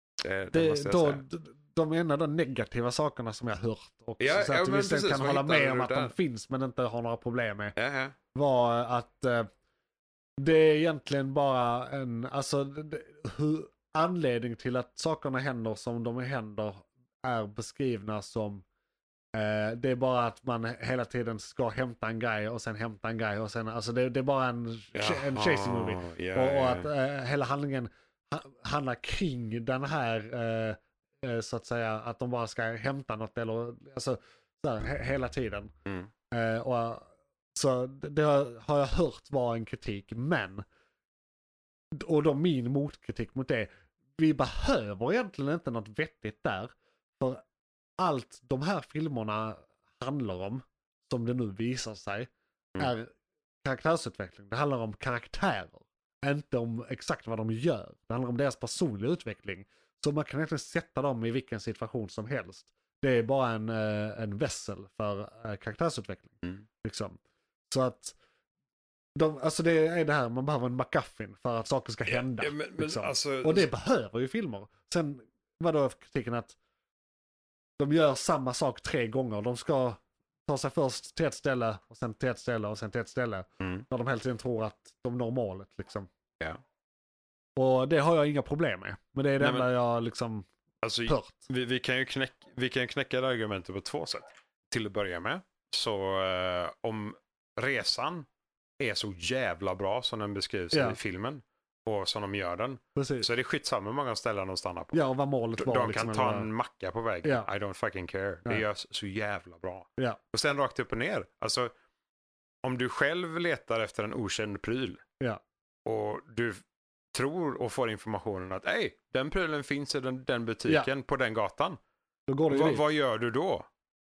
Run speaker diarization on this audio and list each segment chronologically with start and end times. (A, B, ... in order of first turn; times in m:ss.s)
0:00.2-0:01.2 A
0:00.5-0:07.7 B
0:04.2-0:06.1 A
0:07.8-0:08.2 A
0:08.3-0:09.5 B
0:10.4-0:18.6 B
0:19.3-0:35.7 B
0:24.9-0:26.9 A
0:35.8-0:36.1 A
0:36.3-0:40.6 B
0:41.9-0:47.4 B
0:48.0-0:53.1 B
0:53.6-1:08.1 B
1:09.2-1:16.6 B
1:12.0-1:13.7 A
1:17.8-1:26.1 B
1:23.6-1:23.8 A
1:27.6-1:30.5 B
1:29.4-1:29.7 A
1:30.8-1:38.3 A
1:31.1-1:31.5 B
1:38.8-1:45.0 A
1:40.7-1:41.0 B
1:43.0-1:43.3 B
1:44.9-1:46.5 B
1:45.6-1:51.7 A
1:52.6-1:55.0 A
1:55.8-1:56.6 A
1:57.1-2:01.8 A
2:02.3-2:02.8 B
2:02.5-2:03.7 A